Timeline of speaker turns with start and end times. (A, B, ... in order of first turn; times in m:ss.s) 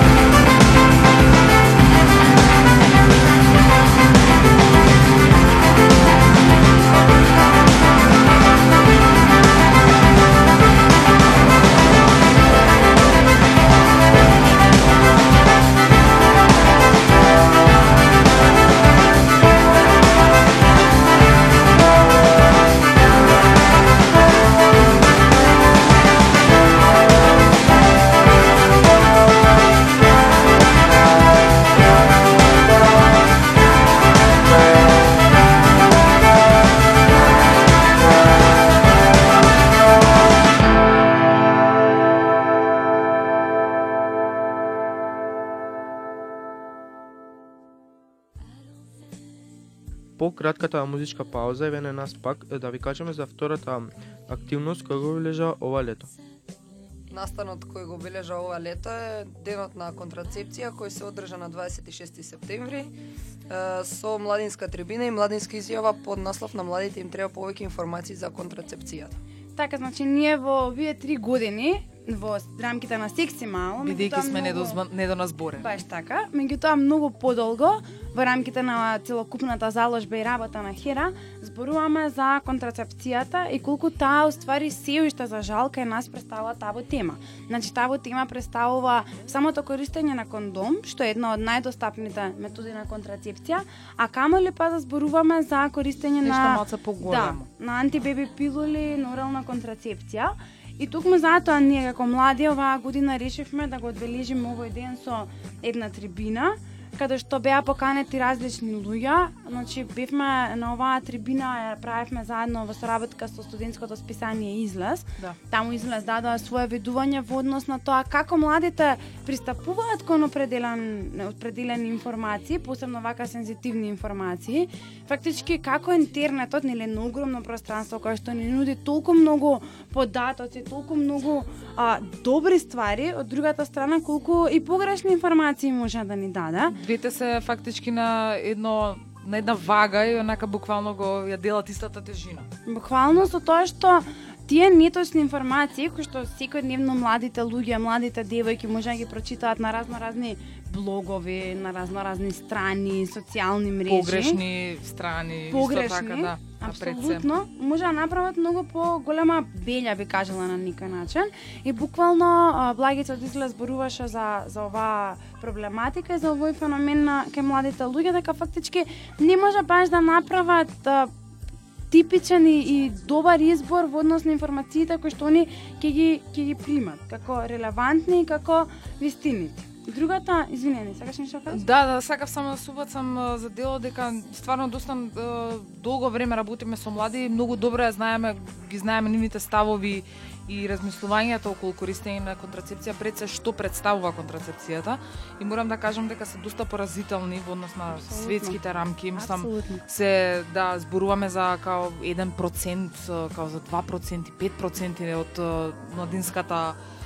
0:50.2-0:56.1 A
0:57.1-1:02.9 B
1:03.5-1:09.2 B
1:09.6-1:14.8 C
1:13.8-1:15.7 D
1:15.6-2:16.8 C
1:36.2-1:37.4 D
2:16.7-2:22.5 D
2:22.6-2:34.4 C
2:33.9-2:37.3 D
2:35.5-2:51.1 C
2:51.9-3:01.6 C
3:01.5-3:26.8 D
3:17.9-3:18.6 C
3:19.1-3:19.8 C